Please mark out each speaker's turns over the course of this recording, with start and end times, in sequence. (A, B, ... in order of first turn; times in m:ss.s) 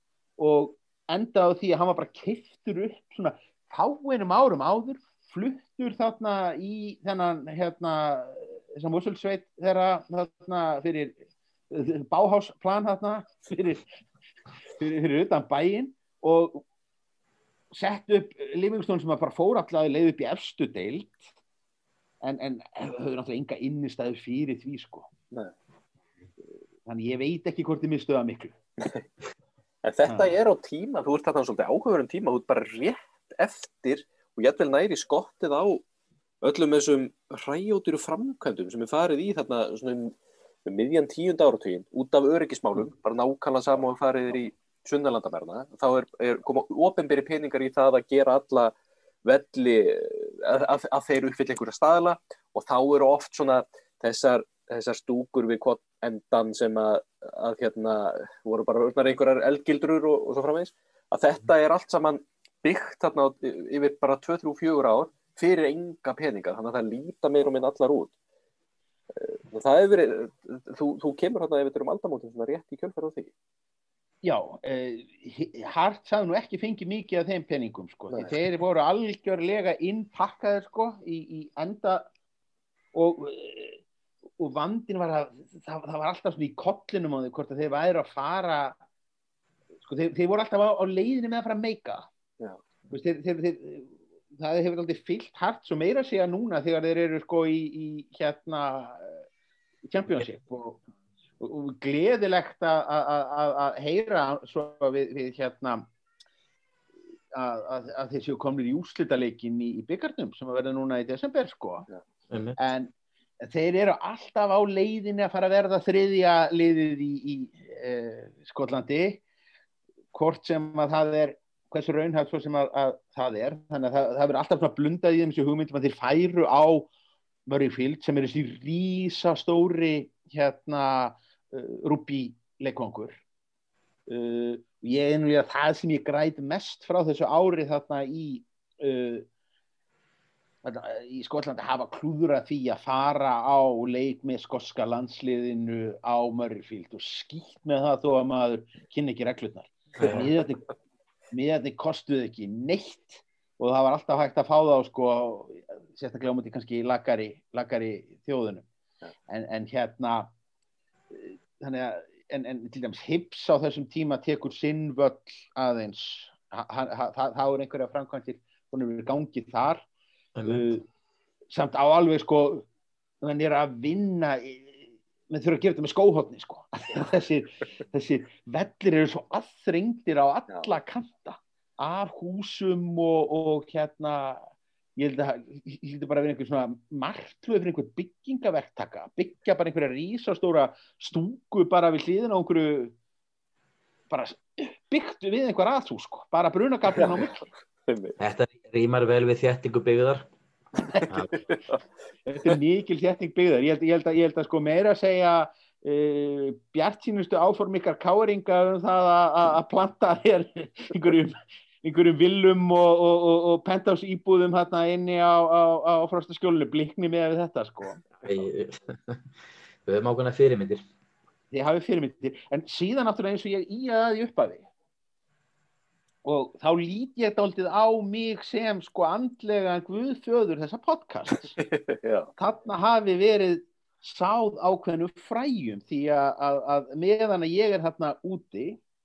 0:00.4-0:11.2 A
0:11.7-0:13.8 A
0:14.7-0:16.6 A
0:17.7-0:21.2 A
0:22.2-0:25.1 A
0:26.8-0:28.5 A
0:29.8-0:35.8 B
0:36.4-0:48.7 B
0:49.2-1:08.1 B
1:09.1-1:13.3 B
1:14.2-1:22.1 A
1:22.9-1:23.8 A
1:24.4-1:28.8 A
1:29.8-1:32.1 A
1:32.9-1:39.2 A
1:39.9-1:40.8 A
1:41.4-1:45.8 A
1:47.3-1:51.9 A
1:52.3-1:52.6 C
1:52.6-1:59.2 A
2:00.1-2:06.9 A
2:07.5-2:13.2 A
2:14.1-2:19.2 A
2:20.6-2:30.6 A
2:30.0-2:30.3 C
2:31.3-2:38.7 A
2:39.3-2:40.3 A
2:41.1-2:49.9 A
2:50.4-2:50.7 C
2:50.4-2:50.8 A
2:51.5-2:52.7 A
2:53.2-3:04.4 A
3:05.0-3:12.9 A
3:14.1-3:17.4 A
3:16.9-3:17.3 B
3:17.8-3:18.2 B
3:18.2-3:20.3 C
3:21.1-3:21.4 C
3:22.3-3:38.2 A
3:38.2-3:39.2 C
3:39.8-3:40.8 C
3:41.5-3:44.6 A
3:46.2-3:51.5 A
3:51.6-3:52.3 B
3:52.4-3:58.8 A